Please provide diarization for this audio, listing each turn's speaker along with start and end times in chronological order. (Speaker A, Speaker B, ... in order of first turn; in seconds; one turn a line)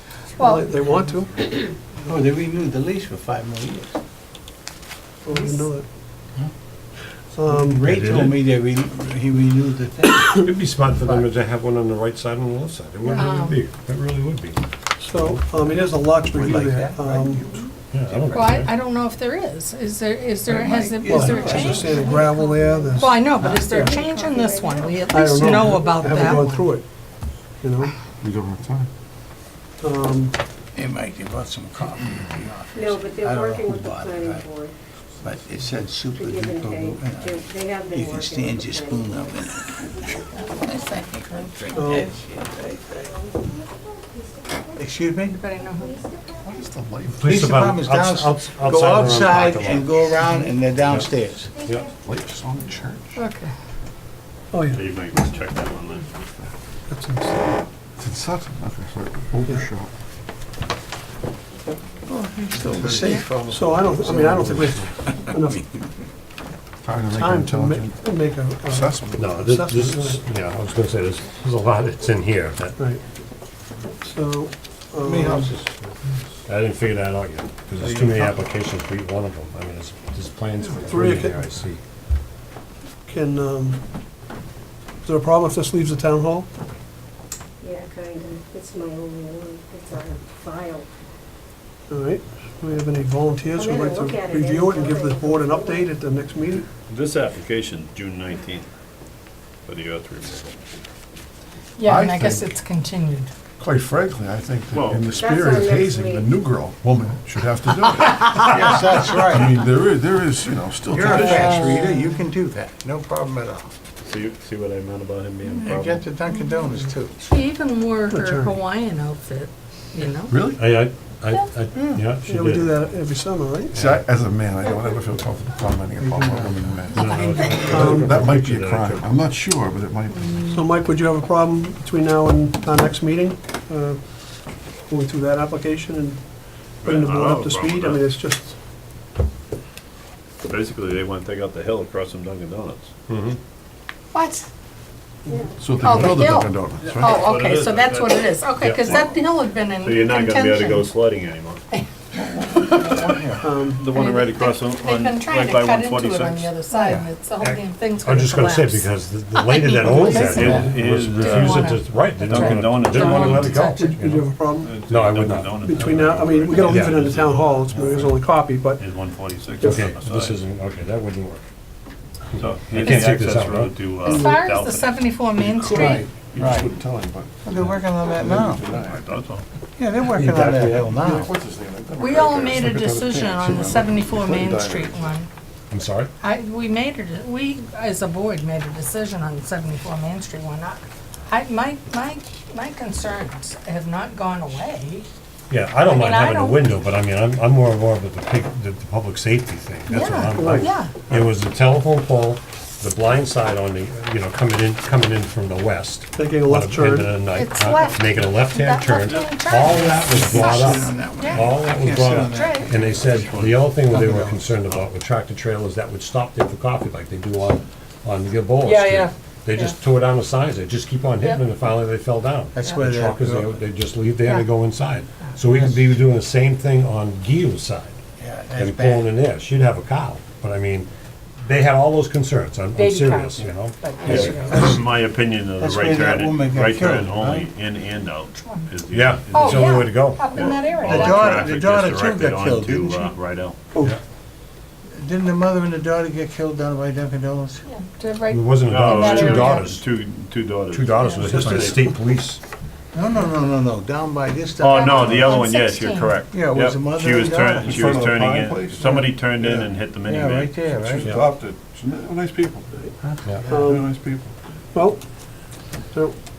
Speaker A: 0.3-0.7
Speaker B: 0.4-2.1
Speaker C: 2.0-4.0
Speaker B: 5.2-5.8
Speaker B: 7.3-8.0
Speaker C: 7.4-10.3
Speaker D: 7.8-8.5
Speaker D: 10.3-14.6
Speaker A: 13.1-13.6
Speaker B: 15.0-17.6
Speaker C: 16.2-18.7
Speaker D: 17.9-18.7
Speaker A: 18.3-26.7
Speaker C: 20.5-22.1
Speaker B: 21.0-24.0
Speaker E: 21.6-22.9
Speaker C: 23.2-23.7
Speaker E: 23.7-25.2
Speaker B: 25.1-26.8
Speaker E: 25.7-26.4
Speaker B: 27.6-27.9
Speaker F: 28.2-28.9
Speaker B: 29.8-30.4
Speaker C: 30.7-34.5
Speaker E: 32.7-34.7
Speaker C: 35.2-43.1
Speaker E: 36.1-39.5
Speaker B: 41.7-42.1
Speaker E: 43.2-43.5
Speaker C: 44.7-45.4
Speaker A: 45.3-46.0
Speaker E: 45.9-46.2
Speaker F: 46.4-47.3
Speaker D: 47.1-50.1
Speaker C: 47.2-51.6
Speaker D: 51.6-51.9
Speaker F: 51.9-53.2
Speaker A: 53.1-53.5
Speaker B: 54.5-54.9
Speaker G: 54.7-56.1
Speaker B: 56.9-57.6
Speaker F: 58.0-59.9
Speaker C: 61.6-66.0
Speaker F: 62.5-64.9
Speaker A: 63.0-63.2
Speaker B: 63.5-65.6
Speaker F: 66.8-68.1
Speaker B: 67.1-70.2
Speaker F: 68.7-69.4
Speaker D: 69.1-72.8
Speaker B: 74.0-75.5
Speaker C: 75.0-75.5
Speaker D: 76.5-81.8
Speaker F: 77.7-78.3
Speaker C: 77.9-78.3
Speaker B: 80.7-81.5
Speaker B: 83.0-83.8
Speaker B: 85.0-86.5
Speaker E: 87.6-90.9
Speaker B: 91.9-96.7
Speaker E: 93.5-96.0
Speaker G: 96.9-98.7
Speaker G: 99.7-100.6
Speaker A: 101.8-103.3
Speaker F: 101.8-102.5
Speaker F: 103.6-111.7
Speaker G: 104.7-105.0
Speaker E: 105.1-106.3
Speaker C: 108.0-109.6
Speaker C: 110.9-113.7
Speaker B: 111.2-111.8
Speaker A: 111.3-112.0
Speaker G: 114.0-116.0
Speaker A: 115.4-115.7
Speaker C: 115.6-117.2
Speaker A: 116.3-116.5
Speaker A: 117.2-120.4
Speaker B: 118.1-118.6
Speaker F: 120.3-120.6
Speaker D: 120.5-123.0
Speaker A: 121.2-121.5
Speaker C: 121.7-122.1
Speaker B: 122.2-123.8
Speaker D: 123.7-124.1
Speaker F: 123.8-130.5
Speaker B: 126.0-128.1
Speaker D: 126.9-129.2
Speaker A: 130.1-130.6
Speaker B: 130.4-136.2
Speaker B: 136.8-138.5
Speaker G: 136.8-138.1
Speaker G: 140.4-142.9
Speaker D: 143.1-143.4
Speaker A: 144.1-144.4
Speaker F: 145.6-147.1
Speaker A: 145.8-150.9
Speaker G: 146.8-149.1
Speaker D: 148.6-148.9
Speaker G: 149.8-151.6
Speaker C: 152.4-153.4
Speaker B: 153.4-153.8
Speaker G: 153.7-156.5
Speaker A: 153.9-163.9
Speaker C: 156.8-157.1
Speaker D: 158.0-164.3
Speaker G: 159.6-163.6
Speaker C: 160.3-160.7
Speaker B: 163.7-164.8
Speaker G: 164.6-168.2
Speaker D: 164.9-166.0
Speaker B: 165.6-168.8
Speaker D: 166.6-167.0
Speaker G: 168.8-170.4
Speaker B: 169.6-169.9
Speaker D: 169.6-171.4
Speaker D: 172.3-173.7
Speaker G: 172.4-175.0
Speaker A: 172.8-173.1
Speaker A: 174.0-176.1
Speaker B: 174.0-174.4
Speaker F: 175.4-177.4
Speaker C: 176.3-176.7
Speaker C: 177.4-178.6
Speaker F: 178.0-179.0
Speaker G: 178.8-179.4
Speaker C: 179.8-181.3
Speaker D: 180.1-180.9
Speaker F: 180.9-185.2
Speaker A: 182.0-185.3
Speaker D: 185.7-186.1
Speaker A: 186.2-195.1
Speaker D: 195.5-227.9
Speaker A: 195.8-196.8
Speaker A: 199.9-200.9
Speaker B: 200.3-200.9
Speaker B: 206.2-207.2
Speaker A: 207.3-211.5
Speaker C: 210.0-214.5
Speaker A: 212.2-212.7
Speaker G: 213.3-213.6
Speaker A: 218.6-219.8
Speaker C: 222.5-223.6
Speaker C: 225.4-226.0
Speaker C: 228.2-229.1
Speaker D: 228.6-230.9
Speaker D: 231.4-234.5
Speaker A: 232.8-234.7
Speaker C: 234.0-234.9
Speaker G: 234.5-243.6
Speaker C: 235.6-237.5
Speaker D: 238.9-240.3
Speaker A: 239.3-241.5
Speaker C: 240.4-243.1
Speaker C: 244.9-247.6
Speaker A: 247.7-249.7
Speaker D: 248.3-249.8
Speaker G: 248.7-251.8
Speaker D: 250.7-252.4
Speaker A: 251.0-251.5
Speaker C: 251.3-251.8
Speaker C: 252.9-255.4
Speaker G: 254.6-260.9
Speaker A: 254.7-256.1
Speaker C: 256.3-257.8
Speaker F: 257.6-259.7
Speaker C: 260.0-261.1
Speaker F: 260.9-262.9
Speaker D: 261.0-261.3
Speaker C: 263.0-263.8
Speaker D: 263.2-263.5
Speaker B: 263.5-263.9
Speaker F: 263.6-264.3
Speaker B: 264.7-265.0
Speaker B: 265.9-266.2